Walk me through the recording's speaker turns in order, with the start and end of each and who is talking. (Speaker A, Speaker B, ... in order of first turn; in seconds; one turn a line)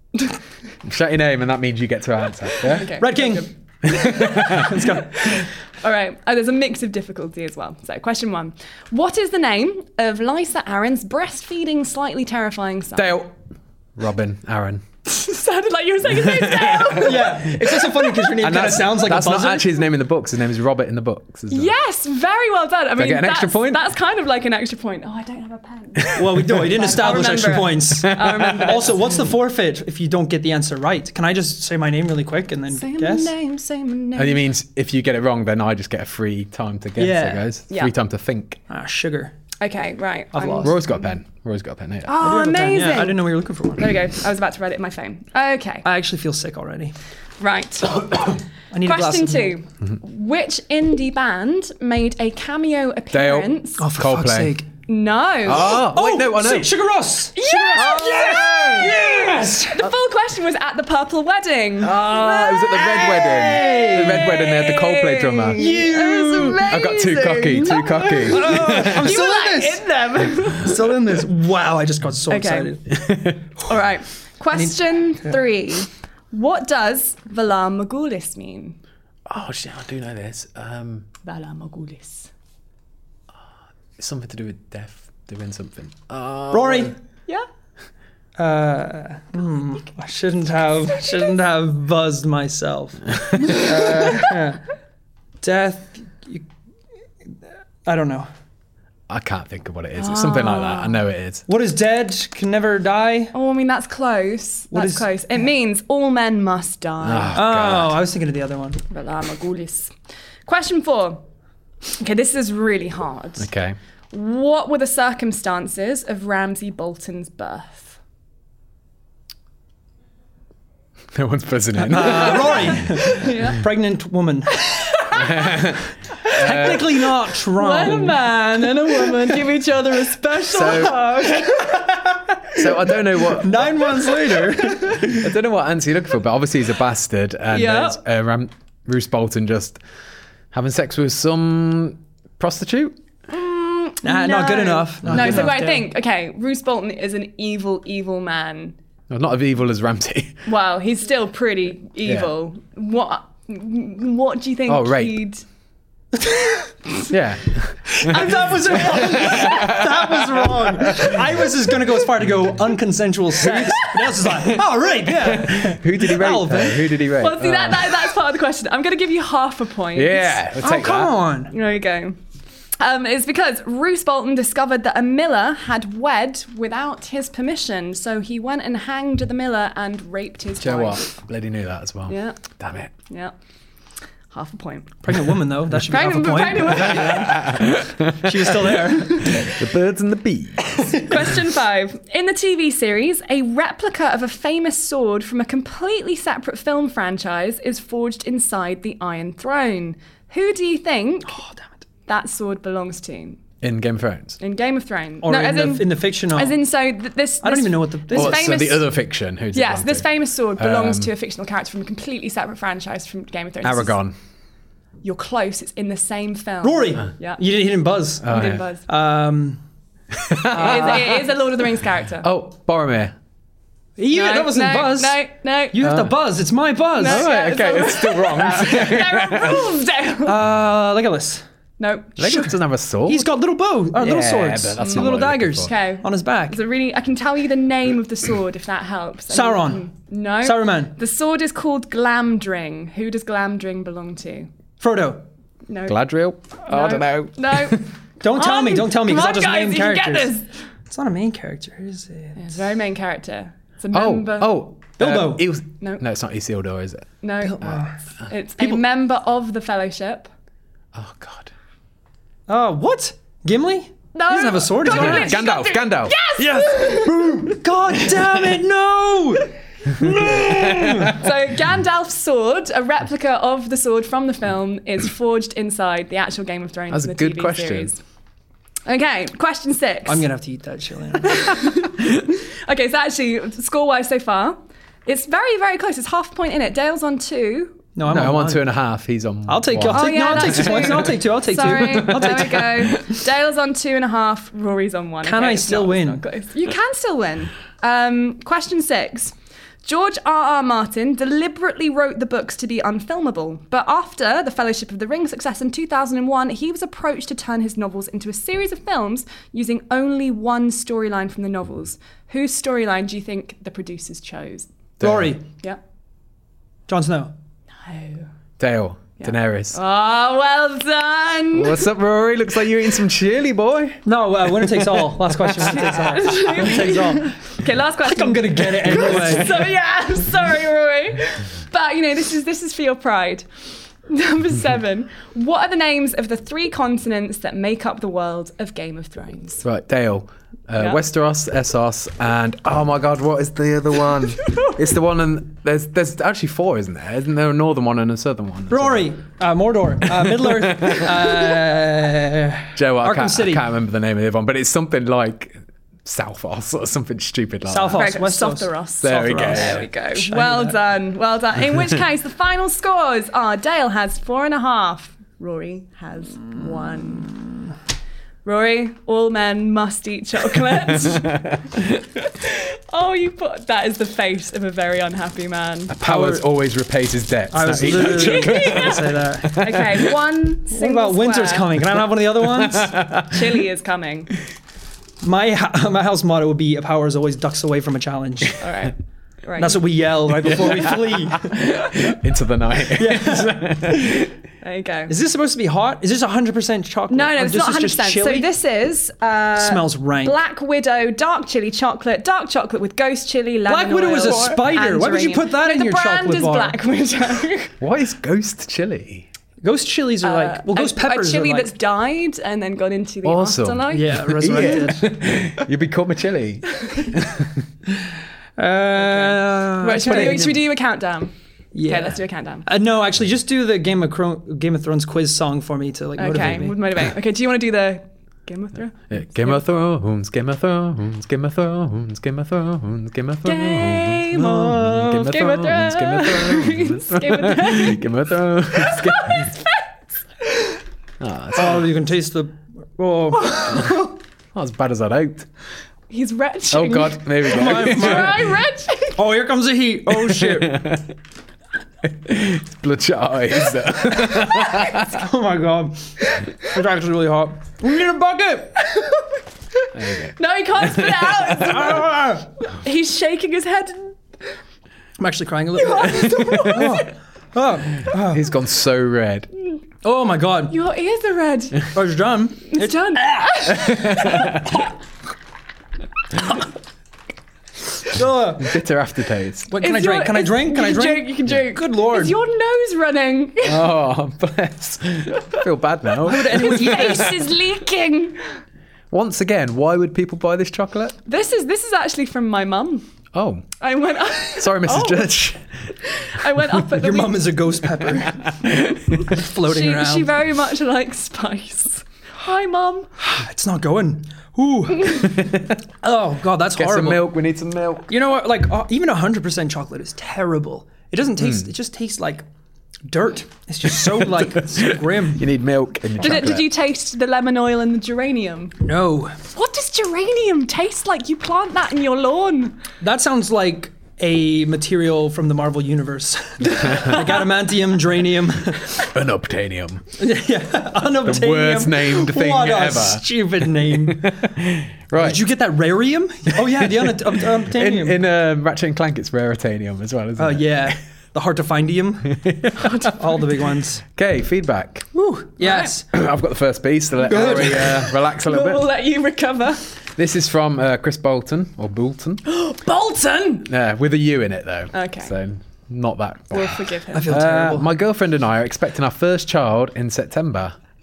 Speaker A: 0.8-2.9
Speaker B: 2.6-13.1
Speaker C: 2.9-5.5
Speaker A: 3.8-4.8
Speaker A: 12.9-13.3
Speaker A: 13.9-14.8
Speaker B: 15.1-18.0
Speaker A: 16.0-17.6
Speaker C: 16.9-19.7
Speaker A: 18.1-21.7
Speaker B: 21.5-29.1
Speaker A: 23.0-23.8
Speaker A: 26.0-26.7
Speaker C: 26.1-33.3
Speaker A: 28.0-28.7
Speaker B: 32.7-34.4
Speaker A: 34.1-38.6
Speaker C: 37.0-37.5
Speaker C: 38.7-39.3
Speaker B: 39.6-41.0
Speaker C: 40.3-40.8
Speaker A: 40.6-42.2
Speaker B: 42.0-45.9
Speaker C: 42.2-44.0
Speaker C: 45.8-46.9
Speaker B: 47.4-53.9
Speaker C: 48.7-49.6
Speaker A: 53.1-54.5
Speaker C: 53.8-54.7
Speaker B: 54.9-55.8
Speaker A: 55.4-56.7
Speaker C: 55.5-59.9
Speaker B: 57.4-71.0
Speaker A: 57.7-59.2
Speaker A: 61.8-69.1
Speaker C: 62.7-64.3
Speaker C: 65.5-66.7
Speaker C: 68.3-69.8
Speaker C: 70.5-73.0
Speaker B: 72.3-73.0
Speaker A: 72.9-73.4
Speaker B: 73.6-78.8
Speaker C: 74.5-75.4
Speaker A: 79.3-81.1
Speaker B: 81.2-82.3
Speaker A: 84.0-86.9
Speaker C: 86.5-86.9
Speaker C: 88.4-94.6
Speaker B: 91.0-91.3
Speaker C: 95.4-96.4
Speaker C: 97.8-98.3
Speaker A: 99.1-101.4
Speaker B: 100.0-101.0
Speaker C: 101.5-103.3
Speaker B: 103.3-107.4
Speaker C: 104.7-105.1
Speaker A: 107.0-108.0
Speaker C: 107.3-108.8
Speaker B: 108.9-109.9
Speaker B: 110.5-111.2
Speaker B: 112.0-113.5
Speaker A: 113.4-113.8
Speaker B: 114.1-117.9
Speaker A: 121.1-123.0
Speaker C: 121.8-125.0
Speaker B: 123.0-123.6
Speaker B: 124.6-125.6
Speaker A: 125.1-127.0
Speaker C: 126.3-129.2
Speaker B: 126.3-131.9
Speaker A: 130.5-131.1
Speaker C: 131.3-135.2
Speaker A: 132.5-133.8
Speaker A: 135.0-139.8
Speaker B: 137.5-138.0
Speaker A: 140.5-143.0
Speaker B: 143.3-148.7
Speaker C: 144.0-145.9
Speaker A: 145.0-145.6
Speaker A: 149.1-150.4
Speaker B: 150.5-155.4
Speaker A: 152.1-152.3
Speaker A: 154.7-155.2
Speaker C: 156.2-156.7
Speaker A: 157.1-161.2
Speaker C: 157.9-166.9
Speaker A: 164.2-168.1
Speaker B: 167.1-170.5
Speaker A: 169.9-171.1
Speaker C: 170.6-171.5
Speaker B: 171.5-172.2
Speaker B: 172.8-181.1
Speaker A: 180.6-182.9
Speaker B: 182.1-182.4
Speaker B: 183.1-183.3
Speaker B: 184.3-185.0
Speaker C: 185.0-189.5
Speaker B: 185.8-187.5
Speaker A: 186.9-188.4
Speaker A: 189.2-191.0
Speaker B: 191.0-201.4
Speaker C: 201.2-201.8
Speaker B: 202.1-203.4
Speaker A: 203.6-204.4
Speaker B: 204.4-208.9
Speaker C: 205.2-206.6
Speaker C: 207.4-208.4
Speaker A: 208.1-210.1
Speaker B: 209.5-214.0
Speaker A: 210.6-211.1
Speaker A: 213.6-214.1
Speaker B: 215.0-217.4
Speaker C: 216.6-219.6
Speaker B: 218.2-218.8
Speaker A: 218.2-218.6
Speaker A: 220.1-221.3
Speaker C: 220.5-221.2
Speaker B: 220.5-222.3
Speaker A: 222.2-223.1
Speaker C: 224.0-225.2
Speaker B: 224.1-225.9
Speaker C: 225.7-227.3
Speaker A: 225.8-226.1
Speaker B: 226.9-230.4
Speaker A: 227.0-229.7
Speaker C: 230.2-231.4
Speaker B: 231.8-232.6
Speaker A: 232.2-233.3
Speaker C: 233.1-236.6
Speaker A: 233.9-235.7
Speaker B: 234.8-235.1
Speaker B: 235.6-244.5
Speaker C: 239.3-239.9
Speaker C: 240.4-240.9
Speaker C: 244.8-245.2
Speaker B: 245.7-246.0
Speaker A: 245.8-247.8
Speaker B: 246.7-250.5
Speaker C: 248.2-250.3
Speaker C: 250.9-252.5
Speaker B: 252.3-254.7
Speaker A: 253.9-257.1
Speaker C: 255.0-255.5
Speaker B: 257.2-260.3
Speaker C: 257.4-258.0
Speaker A: 260.9-261.5
Speaker C: 262.5-265.4
Speaker B: 264.1-267.4
Speaker A: 264.8-266.1
Speaker C: 266.4-271.2
Speaker A: 270.0-271.2
Speaker B: 270.1-278.0
Speaker A: 276.9-277.9
Speaker B: 278.9-280.2
Speaker C: 280.1-281.6
Speaker B: 281.2-287.8
Speaker C: 287.9-288.7
Speaker A: 288.1-290.8
Speaker C: 289.5-293.0
Speaker B: 289.9-299.3
Speaker C: 295.2-296.2
Speaker B: 299.8-314.7
Speaker A: 315.0-315.4
Speaker C: 315.0-315.4
Speaker C: 316.9-317.3
Speaker B: 317.8-318.3
Speaker A: 318.6-319.8
Speaker B: 319.2-321.9
Speaker A: 321.5-324.0
Speaker C: 324.0-327.3
Speaker A: 324.5-325.1
Speaker B: 325.6-333.5
Speaker C: 328.0-329.6
Speaker B: 334.1-339.6
Speaker A: 339.6-349.1
Speaker B: 340.8-341.0
Speaker C: 348.7-353.6
Speaker A: 350.1-351.6
Speaker A: 352.8-358.1
Speaker C: 357.7-360.8
Speaker B: 358.0-367.4
Speaker A: 359.0-359.8
Speaker B: 368.4-375.9
Speaker A: 371.1-371.8
Speaker A: 375.9-380.1
Speaker C: 376.0-376.4
Speaker C: 377.5-379.7
Speaker B: 377.9-381.7
Speaker C: 380.7-383.0
Speaker A: 382.4-383.4
Speaker B: 383.1-384.3
Speaker C: 385.2-388.6
Speaker B: 388.6-389.8
Speaker C: 389.6-391.4
Speaker A: 390.4-394.3
Speaker C: 392.9-394.2
Speaker B: 394.6-395.1
Speaker C: 395.1-398.5
Speaker B: 397.1-407.7
Speaker C: 399.5-400.4
Speaker C: 403.6-406.8
Speaker A: 407.8-409.3
Speaker C: 409.6-411.7
Speaker B: 410.2-414.9
Speaker A: 413.2-417.5
Speaker C: 413.9-415.1
Speaker B: 416.8-417.1
Speaker C: 418.6-420.5
Speaker B: 419.0-421.3
Speaker A: 420.1-420.6
Speaker C: 421.7-426.8
Speaker B: 421.8-422.6
Speaker B: 426.2-429.6
Speaker A: 429.1-439.6
Speaker B: 433.4-438.1
Speaker B: 438.7-439.7
Speaker A: 441.2-441.9
Speaker C: 441.5-444.0
Speaker B: 443.5-444.1
Speaker A: 444.5-445.5
Speaker B: 446.1-449.2
Speaker A: 446.7-448.4
Speaker C: 447.5-448.5
Speaker C: 449.1-451.0
Speaker A: 450.1-451.1
Speaker A: 452.0-455.1
Speaker B: 454.3-454.9
Speaker C: 455.0-458.8
Speaker B: 458.9-459.2
Speaker A: 459.9-461.5
Speaker B: 460.4-464.2
Speaker C: 461.6-462.5
Speaker C: 465.2-468.5
Speaker B: 465.8-467.1
Speaker A: 468.2-469.5
Speaker C: 470.0-470.8
Speaker B: 470.7-471.9
Speaker C: 471.9-474.6
Speaker B: 472.7-474.6
Speaker A: 473.7-474.8
Speaker C: 478.1-478.7
Speaker A: 478.6-479.7
Speaker C: 479.7-482.4
Speaker B: 479.8-483.9
Speaker A: 483.6-487.3
Speaker C: 486.2-487.4
Speaker B: 486.4-488.4
Speaker A: 489.1-491.2
Speaker B: 491.2-493.0
Speaker A: 493.3-493.6
Speaker B: 493.8-495.4
Speaker A: 494.5-495.9
Speaker B: 496.0-497.7
Speaker C: 496.9-500.3
Speaker B: 499.1-503.1
Speaker C: 503.2-505.5
Speaker A: 505.2-505.8
Speaker C: 506.0-507.3
Speaker A: 506.8-508.1
Speaker C: 508.1-512.4
Speaker C: 513.1-515.5
Speaker A: 514.1-516.7
Speaker B: 516.2-518.8
Speaker C: 518.8-519.4
Speaker B: 519.5-522.8
Speaker C: 523.0-529.0
Speaker B: 526.9-527.5
Speaker A: 528.9-530.0
Speaker C: 530.2-534.3
Speaker A: 531.2-535.4
Speaker C: 535.1-538.2
Speaker A: 536.5-540.9
Speaker C: 540.4-544.0
Speaker A: 542.3-542.9
Speaker B: 542.8-543.1
Speaker A: 544.1-545.1
Speaker C: 545.1-546.0
Speaker A: 546.1-548.9
Speaker C: 547.2-548.0
Speaker B: 547.3-549.9
Speaker A: 550.1-552.4
Speaker B: 552.5-553.7
Speaker A: 553.6-560.7
Speaker B: 554.9-555.3
Speaker B: 556.5-557.4
Speaker C: 557.1-557.9